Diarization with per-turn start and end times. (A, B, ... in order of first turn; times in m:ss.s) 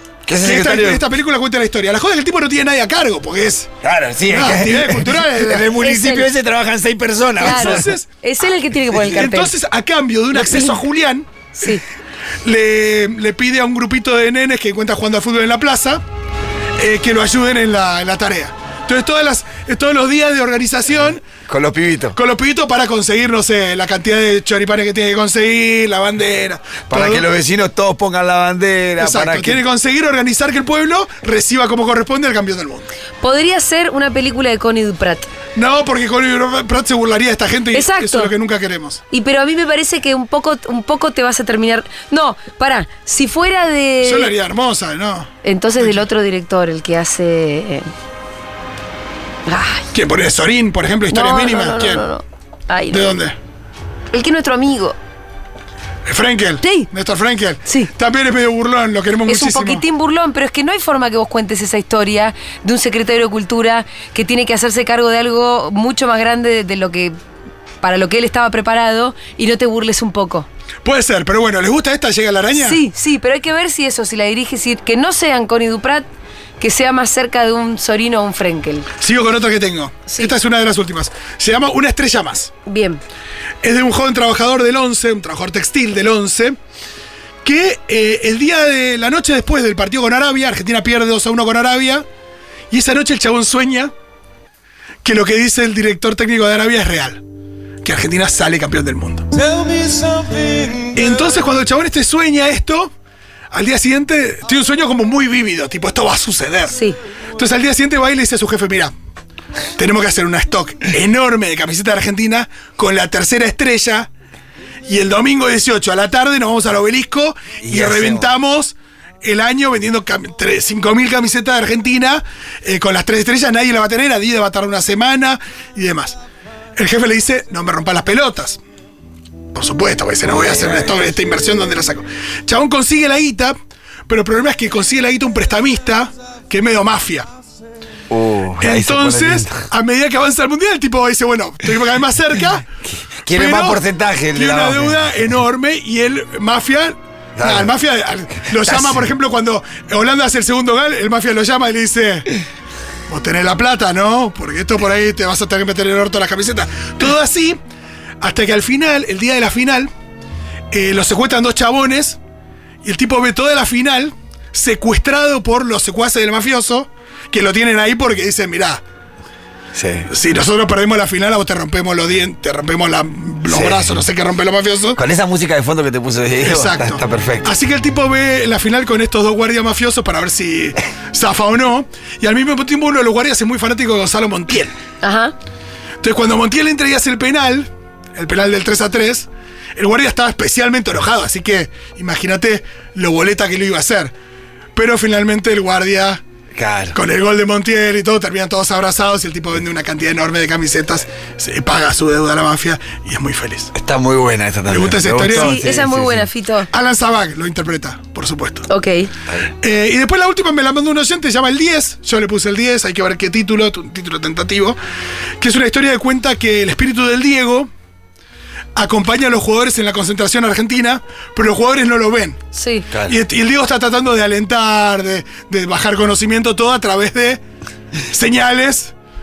0:00.2-0:01.0 A
0:00.4-0:03.7 B
0:03.8-0:07.9 A
0:04.3-0:05.8 B
0:05.8-0:06.3 C
0:07.4-0:08.1 B
0:07.4-0:09.5 C
0:09.0-0:11.8 B
0:10.3-0:10.8 C
0:11.5-0:11.8 C
0:12.4-0:16.0 B
0:16.8-0:21.2 B
0:21.4-0:22.2 A
0:22.1-0:27.3 B
0:26.9-0:29.6 A
0:29.0-0:32.9 B
0:33.2-0:35.3 C
0:35.5-0:39.0 B
0:37.7-0:38.3 C
0:39.1-0:44.3 C
0:44.0-0:46.0 B
0:45.4-0:47.9 C
0:49.4-0:49.9 C
0:49.9-0:52.0 B
0:51.1-0:53.1 C
0:52.9-0:53.4 B
0:54.1-0:55.0 C
0:56.0-0:59.8 B
0:56.6-0:56.9 C
0:57.6-0:57.9 C
0:59.2-1:07.1 C
1:07.8-1:10.5 C
1:10.8-1:12.8 B
1:12.5-1:16.0 C
1:16.6-1:18.9 C
1:19.0-1:22.5 B
1:22.6-1:23.0 C
1:23.6-1:26.6 B
1:27.4-1:32.0 B
1:32.7-1:33.9 B
1:35.0-1:37.2 B
1:37.8-1:39.3 B
1:39.4-1:41.0 A
1:40.9-1:42.9 B
1:43.5-1:46.8 B
1:46.7-1:47.0 C
1:47.4-1:48.9 B
1:49.7-1:54.1 B
1:54.9-2:06.2 B
1:57.6-1:58.3 A
2:06.8-2:08.6 B
2:09.5-2:13.6 B
2:10.2-2:10.9 A
2:14.1-2:17.3 B
2:18.1-2:19.5 A
2:18.6-2:22.6 B
2:23.2-2:25.1 A
2:23.3-2:23.8 B
2:24.3-2:32.4 B
2:27.4-2:27.7 A
2:28.5-2:29.0 A
2:33.1-2:37.6 B
2:38.2-2:39.9 B
2:40.7-2:42.2 B
2:42.8-2:48.8 B
2:49.7-2:50.1 A
2:50.1-2:55.0 B
2:53.5-2:54.0 A
2:54.9-2:57.5 A
2:56.4-3:04.7 B
3:05.0-3:05.3 C
3:06.0-3:14.1 B
3:14.7-3:16.2 B
3:16.5-3:17.0 A
3:16.9-3:23.7 B
3:23.7-3:26.3 A
3:24.7-3:25.7 B
3:25.3-3:26.7 C
3:26.7-3:28.7 B
3:28.7-3:29.1 C
3:29.6-3:34.8 B
3:35.4-3:37.7 B
3:38.8-3:42.4 B
3:42.5-3:42.9 C
3:42.9-3:43.2 A
3:43.0-3:47.4 B
3:48.0-3:48.9 B